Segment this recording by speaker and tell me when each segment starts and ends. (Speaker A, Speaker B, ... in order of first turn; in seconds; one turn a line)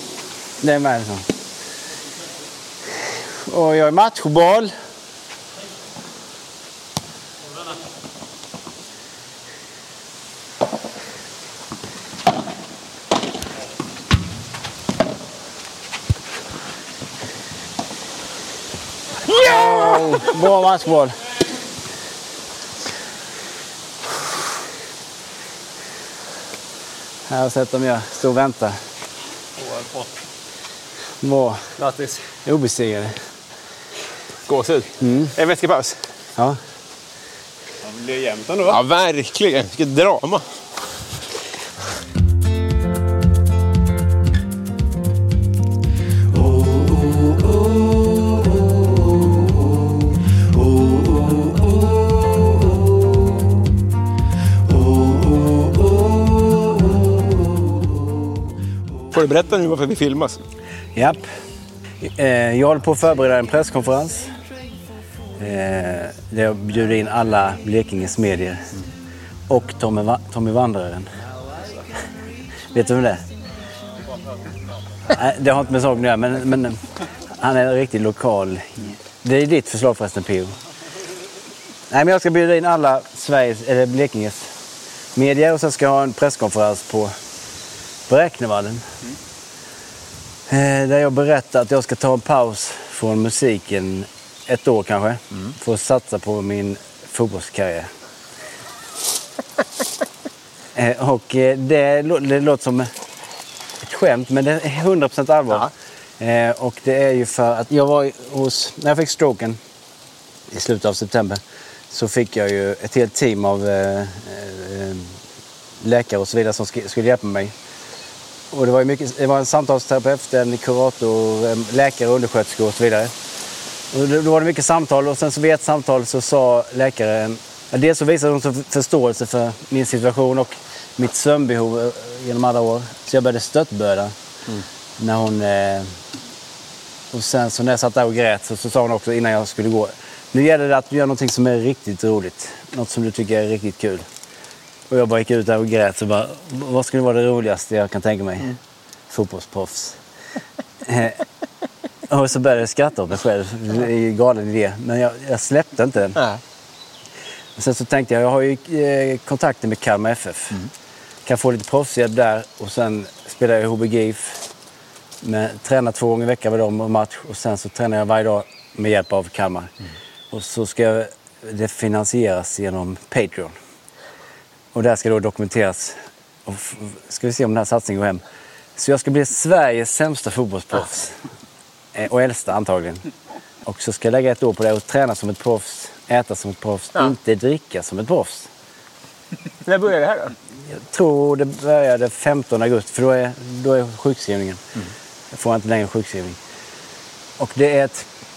Speaker A: 0.6-1.3
Speaker A: 3.4-4.7
Speaker B: 19.3-20.1
Speaker A: 19.3-21.2
Speaker A: 27.3-28.8
Speaker C: 29.6-30.1
Speaker A: 31.2-31.6
Speaker C: 31.8-32.3
Speaker A: 32.4-33.1
Speaker B: 34.5-36.0
Speaker A: 35.0-35.3
Speaker C: 37.8-38.8
Speaker B: 38.7-40.4
Speaker B: 59.1-60.4
Speaker A: 61.0-61.2
Speaker A: 62.0-64.3
Speaker A: 65.4-68.7
Speaker A: 69.5-71.1
Speaker A: 72.7-73.2
Speaker A: 75.1-76.8
Speaker A: 77.4-80.5
Speaker A: 81.9-84.5
Speaker A: 85.2-87.1
Speaker A: 88.1-88.8
Speaker A: 90.5-97.9
Speaker A: 100.8-102.9
Speaker A: 103.8-109.6
Speaker A: 110.5-115.2
Speaker A: 115.8-117.5
Speaker A: 118.5-123.1
Speaker A: 123.9-134.1
Speaker A: 135.0-135.9
Speaker A: 137.1-144.1
Speaker A: 144.9-148.5
Speaker A: 149.1-150.0
Speaker A: 150.8-151.2
Speaker A: 152.1-156.2
Speaker A: 157.6-160.6
Speaker A: 161.3-164.4
Speaker A: 165.2-169.7
Speaker A: 170.3-173.6
Speaker A: 174.7-178.2
Speaker A: 178.8-181.2
Speaker A: 181.9-183.1
Speaker A: 183.7-188.5
Speaker B: 189.7-190.3
Speaker A: 190.7-194.6
Speaker A: 195.3-196.4
Speaker A: 197.4-198.1